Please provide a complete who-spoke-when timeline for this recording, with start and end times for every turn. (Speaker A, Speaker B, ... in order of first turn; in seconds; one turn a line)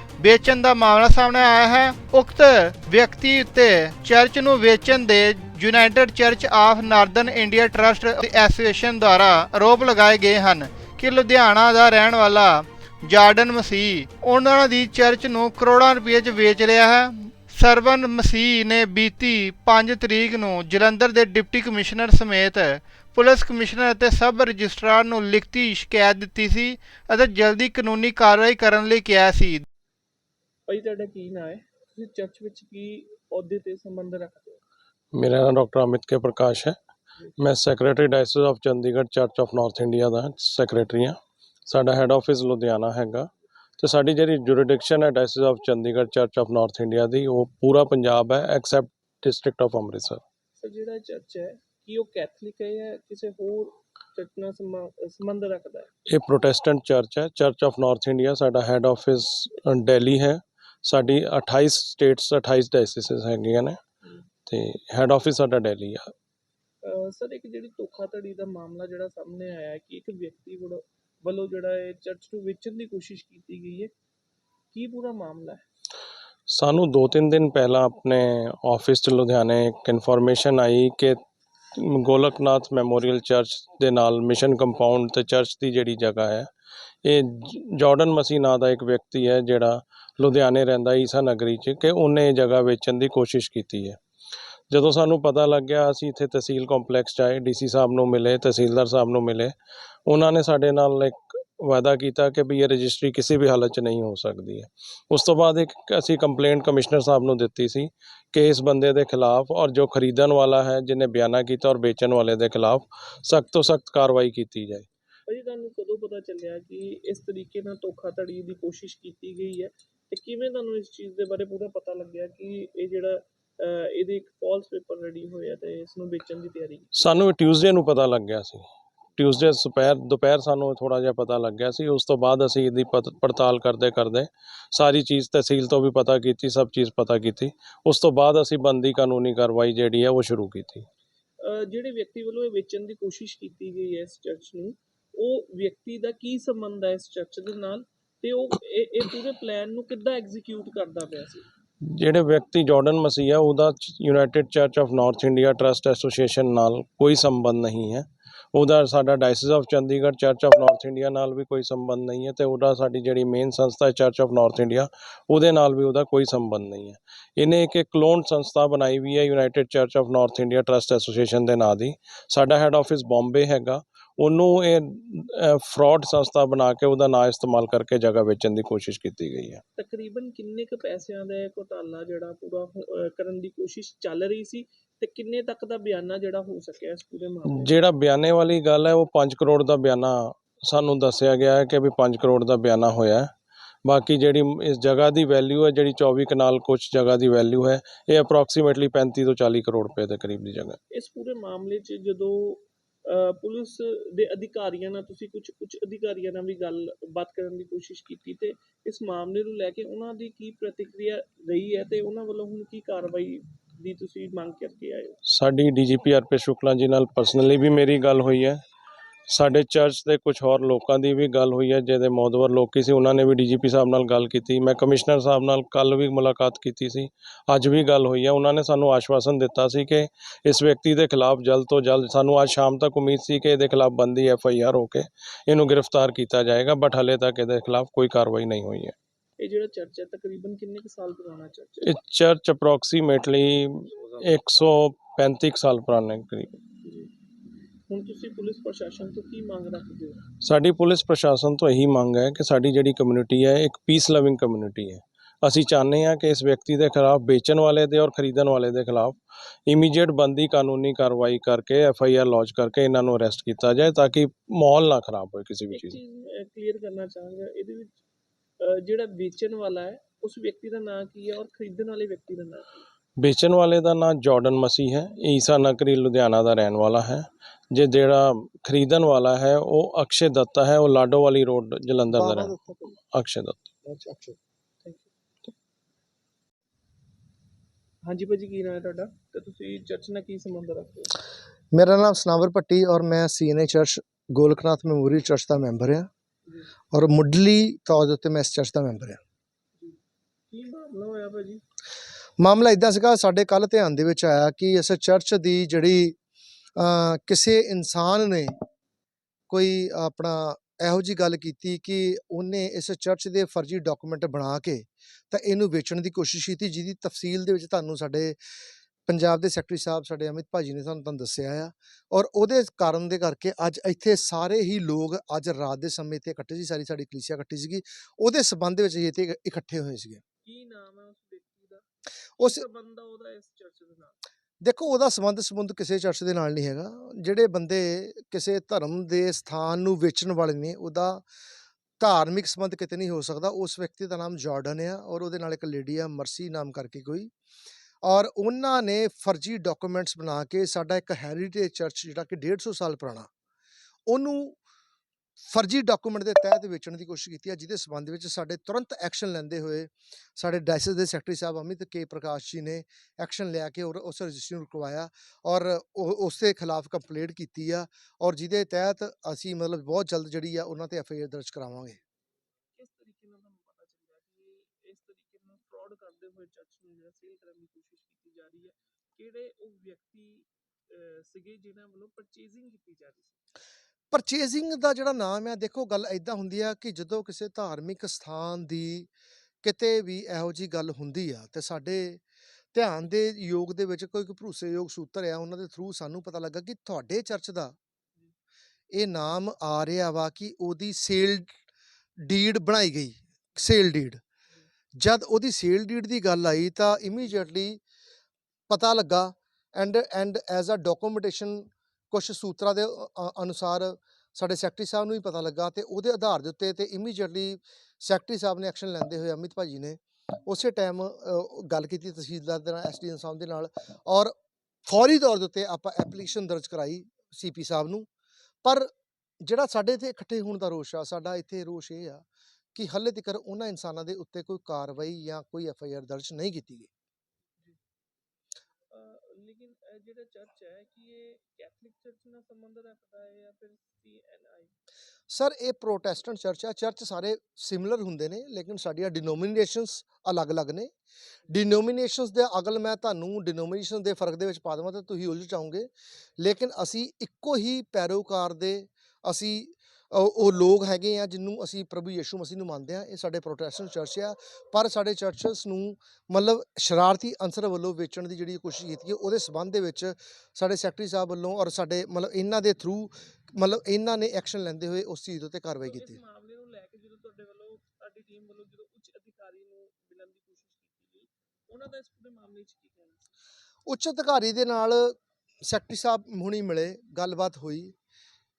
Speaker A: 0.2-29.6
Speaker B: 30.7-34.6
Speaker C: 35.1-36.8
Speaker C: 37.4-41.2
Speaker C: 41.7-50.2
Speaker B: 50.6-55.9
Speaker C: 56.1-63.8
Speaker C: 64.5-66.1
Speaker B: 66.8-73.9
Speaker B: 74.7-75.6
Speaker C: 76.5-81.2
Speaker C: 81.8-86.5
Speaker C: 87.0-94.0
Speaker C: 94.7-99.5
Speaker C: 100.1-114.9
Speaker B: 115.3-126.9
Speaker C: 127.0-128.7
Speaker C: 129.2-140.9
Speaker B: 141.4-151.5
Speaker C: 151.9-179.6
Speaker B: 179.8-187.8
Speaker C: 187.5-193.3
Speaker C: 193.8-200.8
Speaker B: 200.9-215.2
Speaker C: 215.3-218.6
Speaker C: 219.3-238.9
Speaker B: 239.4-242.0
Speaker C: 241.8-246.6
Speaker B: 246.8-247.1
Speaker B: 247.9-250.2
Speaker C: 250.4-266.0
Speaker B: 265.7-268.0
Speaker B: 268.6-272.8
Speaker C: 273.2-282.6
Speaker D: 282.1-282.9
Speaker C: 283.1-283.7
Speaker D: 283.9-284.4
Speaker B: 284.8-285.1
Speaker B: 288.0-291.2
Speaker D: 291.7-296.1
Speaker D: 296.9-299.2
Speaker B: 300.5-301.6
Speaker D: 302.4-306.2
Speaker D: 306.8-308.5
Speaker D: 309.5-318.4
Speaker D: 319.1-330.2
Speaker B: 330.4-331.9
Speaker B: 332.4-334.2
Speaker D: 334.6-341.2
Speaker D: 342.0-347.3
Speaker D: 348.0-353.3
Speaker D: 354.1-354.6
Speaker D: 355.4-372.0
Speaker B: 372.8-383.4
Speaker D: 384.1-389.1
Speaker D: 389.6-392.2
Speaker D: 392.7-397.8
Speaker D: 398.9-401.6
Speaker D: 402.2-404.2
Speaker D: 405.0-407.8
Speaker D: 408.7-424.3
Speaker D: 424.9-428.1
Speaker D: 428.6-428.9
Speaker D: 429.4-432.2
Speaker D: 432.8-436.9
Speaker B: 438.9-444.7
Speaker D: 445.3-450.9
Speaker D: 451.5-476.2
Speaker B: 475.9-483.3
Speaker D: 483.9-487.9